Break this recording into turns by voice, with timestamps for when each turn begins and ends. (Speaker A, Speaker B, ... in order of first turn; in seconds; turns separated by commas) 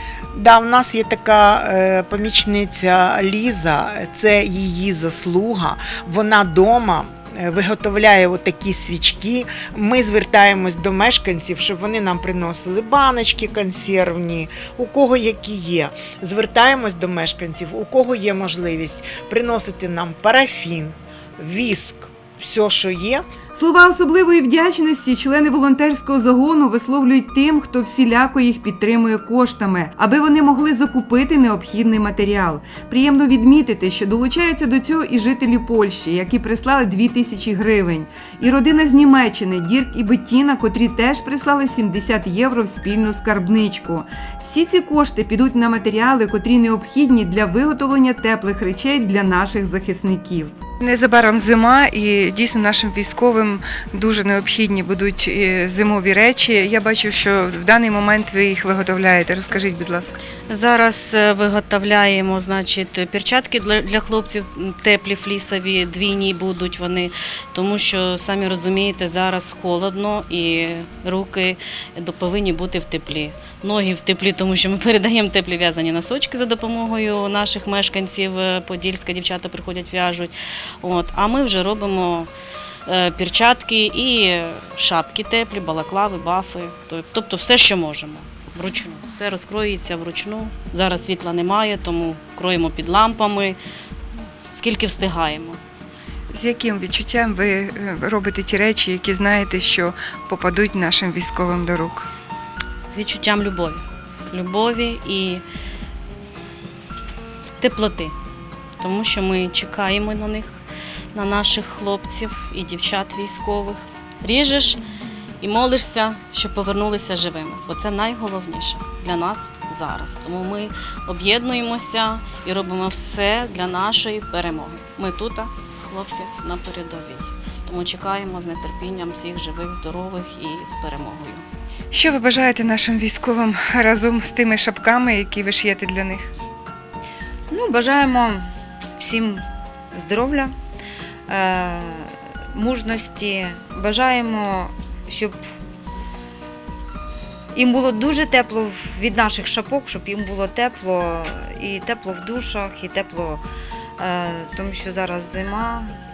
Speaker A: 0.3-23.2, Speaker B: 23.5-50.6, Speaker C: 50.8-60.2, Speaker D: 60.5-80.3, Speaker D: 80.8-82.3, Speaker D: 82.9-93.6, Speaker D: 94.5-95.6, Speaker C: 96.3-102.1, Speaker D: 102.9-105.4, Speaker D: 107.6-108.1, Speaker D: 108.8-110.6, Speaker D: 111.1-114.8, Speaker D: 115.4-131.4, Speaker C: 131.9-136.3, Speaker E: 137.5-138.5, Speaker E: 139.0-140.5, Speaker E: 141.3-145.4, Speaker E: 147.5-153.4, Speaker E: 154.0-155.9